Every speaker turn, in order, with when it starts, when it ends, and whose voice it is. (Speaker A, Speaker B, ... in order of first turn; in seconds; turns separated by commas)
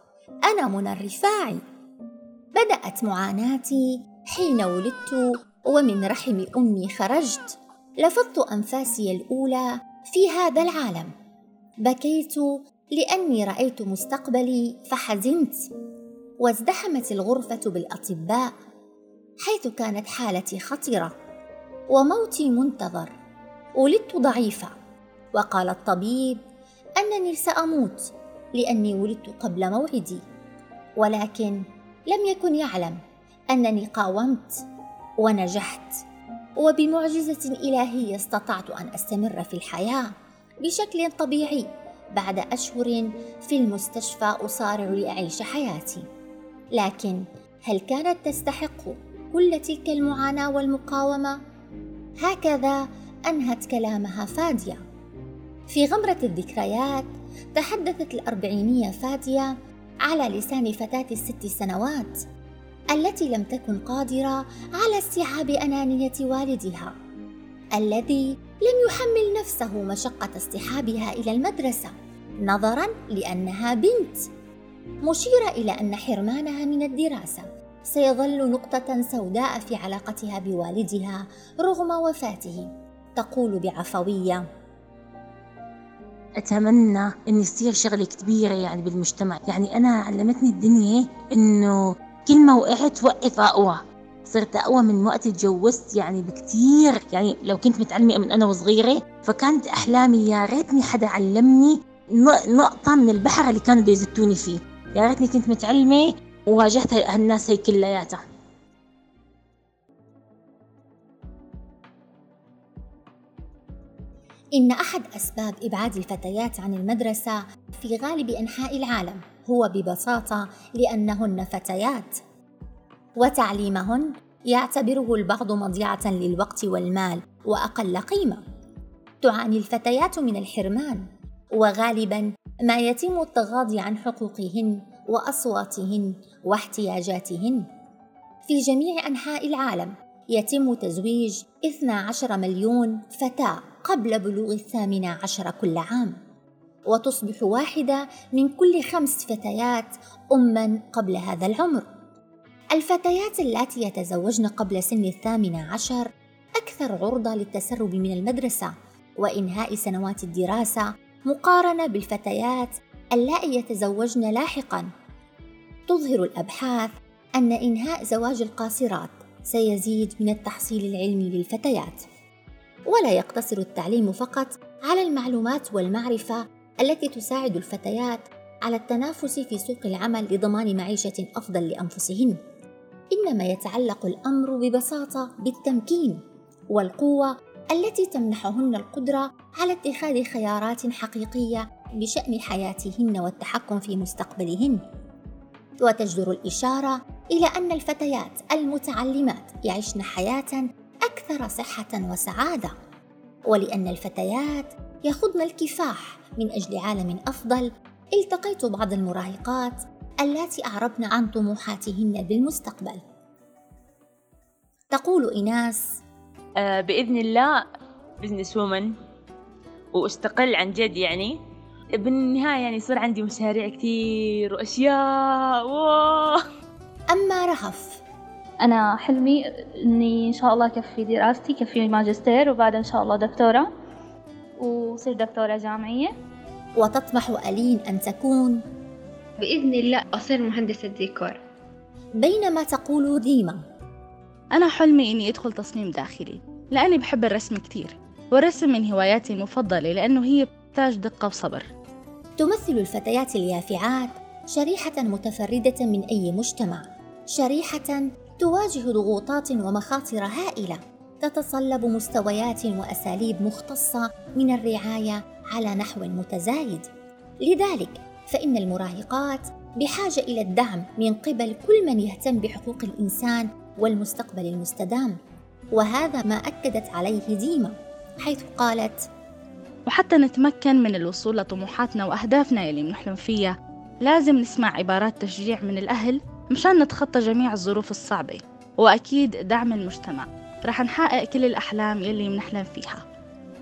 Speaker A: 0.5-1.6, Speaker A: 2.6-11.1, Speaker A: 11.8-15.6, Speaker A: 16.4-18.5, Speaker A: 19.5-21.1, Speaker A: 21.9-23.1, Speaker A: 23.8-24.7, Speaker A: 25.4-26.4, Speaker A: 27.0-30.2, Speaker A: 31.0-33.0, Speaker A: 33.5-34.5, Speaker A: 35.2-35.9, Speaker A: 36.6-40.1, Speaker A: 40.6-46.0, Speaker A: 46.8-51.4, Speaker A: 52.2-54.8, Speaker A: 55.7-59.5, Speaker A: 60.1-62.1, Speaker A: 62.9-66.9, Speaker A: 67.8-74.3, Speaker A: 75.0-84.4, Speaker B: 86.4-108.2, Speaker A: 114.6-122.2, Speaker A: 123.2-128.4, Speaker A: 129.2-137.7, Speaker A: 138.5-146.2, Speaker A: 146.9-151.8, Speaker A: 152.8-156.1, Speaker A: 156.6-164.9, Speaker A: 165.9-172.0, Speaker A: 172.9-182.4, Speaker A: 183.1-186.2, Speaker A: 186.7-194.8, Speaker A: 195.8-202.7, Speaker A: 203.5-213.0, Speaker A: 214.9-215.8, Speaker C: 216.6-217.6, Speaker C: 218.2-218.9, Speaker C: 219.9-221.4, Speaker C: 221.9-226.4, Speaker A: 227.1-228.0, Speaker D: 228.6-233.7, Speaker D: 234.6-236.1, Speaker A: 236.8-238.6, Speaker E: 239.4-241.4, Speaker A: 242.2-243.6, Speaker F: 244.5-251.7, Speaker A: 252.4-266.9, Speaker A: 267.4-275.2, Speaker A: 275.8-279.0, Speaker F: 279.9-293.1